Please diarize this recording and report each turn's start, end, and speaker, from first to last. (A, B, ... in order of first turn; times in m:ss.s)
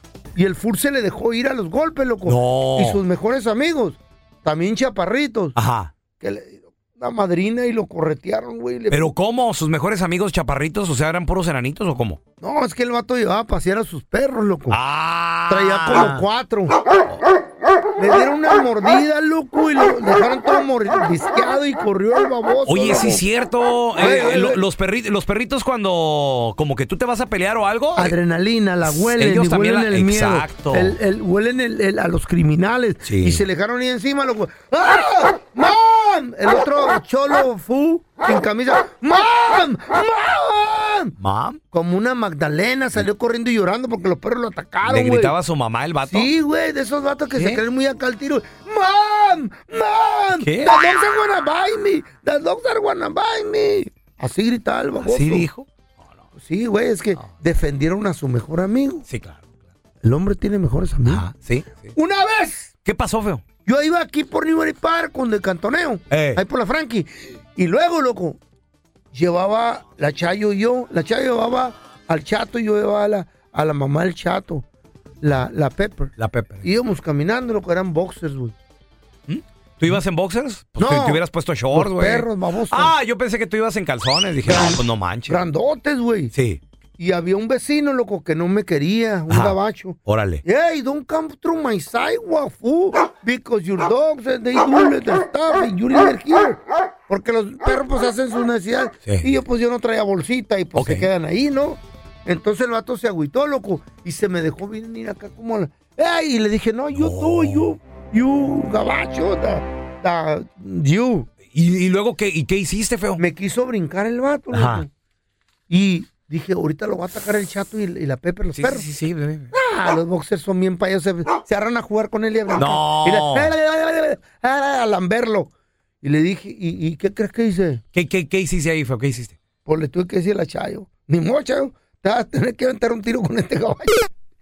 0:00.4-0:05.6 A
0:02.3-0:03.0 B
0:05.6-0:05.9 B
0:06.2-0:09.1 A
0:08.9-0:12.2 B
0:12.4-0:14.8 A
0:14.7-0:16.2 B
0:15.5-0:16.8 A
0:18.0-0:23.2 A
0:22.6-0:28.1 B
0:24.0-0:24.6 A
0:27.9-0:41.1 A
0:28.8-0:31.0 B
0:33.0-0:33.4 B
0:41.2-0:41.6 B
0:41.7-0:45.3 A
0:44.9-0:46.3 B
0:46.1-0:55.5 A
0:47.4-0:47.6 B
0:50.4-0:50.7 B
0:55.0-0:55.7 B
0:56.4-0:59.0 A
0:59.1-0:59.5 B
1:00.0-1:01.3 A
1:01.1-1:01.9 B
1:01.9-1:02.7 A
1:02.8-1:03.4 B
1:03.6-1:08.4 A
1:06.1-1:06.4 B
1:09.1-1:14.6 A
1:15.2-1:18.6 A
1:16.2-1:16.6 B
1:19.3-1:25.4 B
1:20.8-1:21.2 A
1:21.7-1:22.9 A
1:24.4-1:26.3 A
1:26.3-1:26.6 B
1:27.0-1:51.3 A
1:29.3-1:30.4 B
1:39.1-1:39.3 B
1:40.8-1:41.1 B
1:46.9-1:47.8 B
1:51.5-1:53.2 B
1:53.2-1:54.9 A
1:54.5-1:54.8 B
1:55.7-1:58.8 A
1:58.6-1:59.5 B
1:59.5-2:05.5 A
2:02.6-2:03.5 B
2:06.0-2:07.8 A
2:07.9-2:09.4 B
2:09.6-2:14.1 A